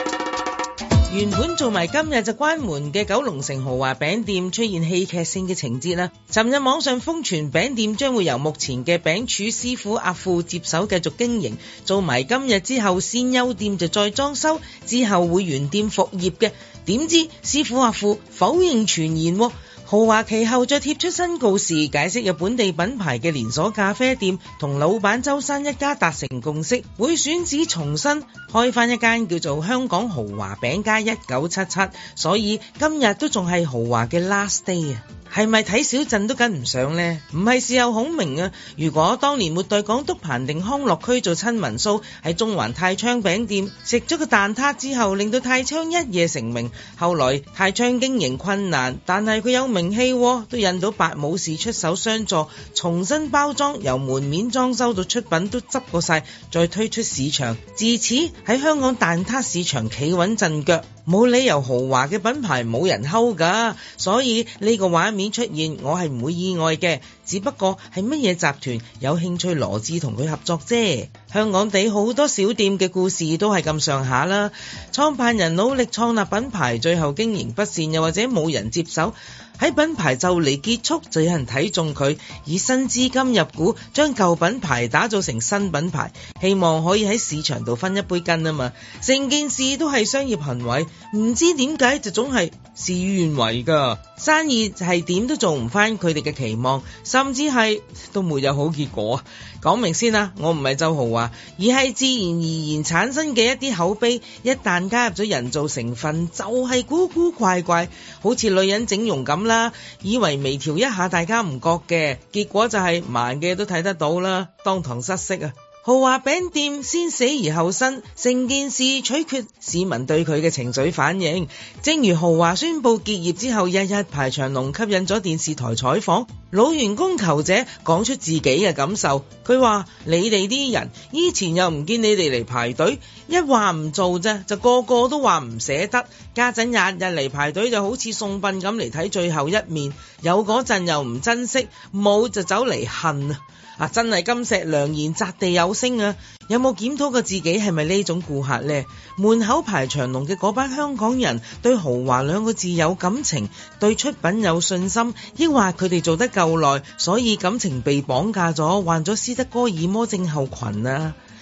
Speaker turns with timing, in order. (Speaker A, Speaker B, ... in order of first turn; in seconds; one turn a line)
Speaker A: 1.1-161.2